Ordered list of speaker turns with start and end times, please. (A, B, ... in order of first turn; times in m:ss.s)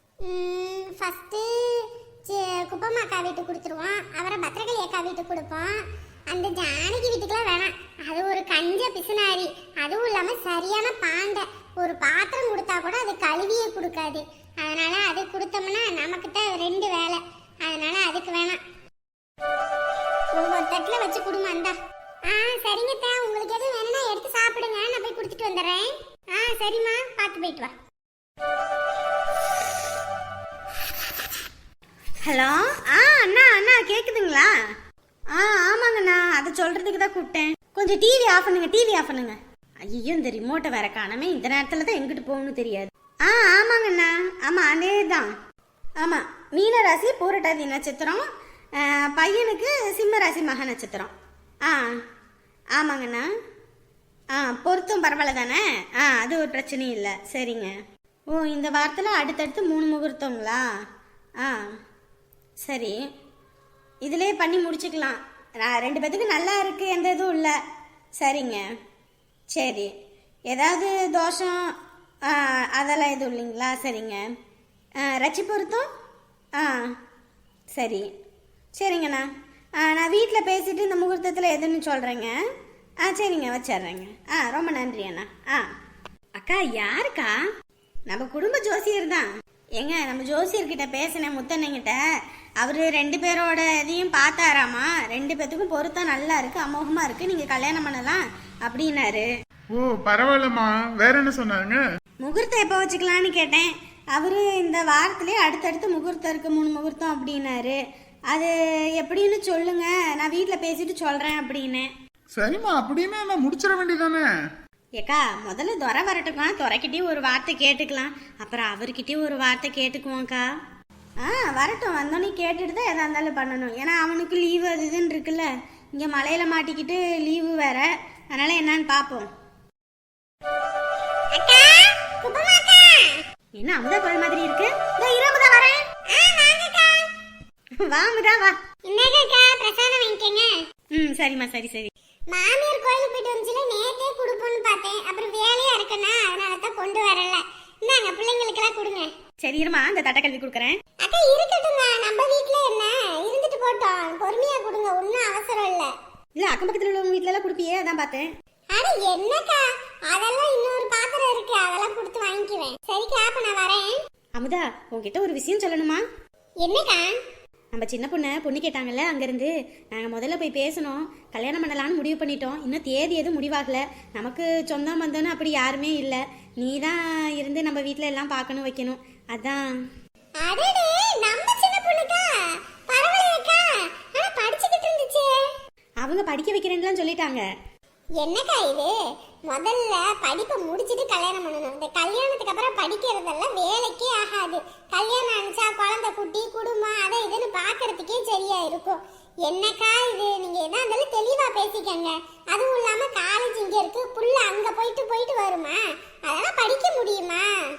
0:00.2-0:18.6 A
0:20.3-0:21.7 A
0:22.3-0:27.7 A
0:32.2-0:34.5 B
0:35.3-0:45.3 B
0:46.0-0:48.2 B
0:48.8-0:51.1 B
0:51.7-0:52.0 B
0:52.8-0:53.3 B
0:54.3-0:57.7 B
0:58.3-1:00.6 B
1:01.4-1:01.7 B
1:02.6-1:03.0 B
1:04.0-1:07.5 B
1:08.2-1:08.6 B
1:09.5-1:09.9 B
1:10.5-1:11.6 B
1:12.3-1:14.2 B
1:15.0-1:15.9 B
1:16.6-1:16.9 B
1:17.8-1:18.1 B
1:18.8-1:19.3 B
1:19.8-1:22.3 B
1:23.0-1:25.6 B
1:26.4-1:27.4 B
1:28.1-1:29.3 B
1:29.8-1:32.0 B
1:32.6-1:39.3 B
1:39.7-1:41.8 C
1:42.2-1:47.8 B
1:48.3-1:51.9 B
1:52.4-1:54.2 C
1:55.0-2:00.5 B
2:01.2-2:09.3 B
2:11.3-2:13.2 A
2:13.6-2:15.8 B
2:16.1-2:17.1 A
2:17.8-2:18.5 B
2:18.9-2:20.5 A
2:20.9-2:21.9 B
2:22.3-2:29.1 A
2:29.4-2:30.8 B
2:31.0-2:35.9 A
2:36.4-2:38.3 B
2:38.7-2:43.9 A
2:44.4-2:46.0 B
2:46.6-2:47.2 A
2:47.7-2:59.7 B
3:00.4-3:02.3 A
3:02.9-3:05.5 A
3:06.0-3:07.4 B
3:08.2-3:08.9 A
3:09.5-3:27.4 A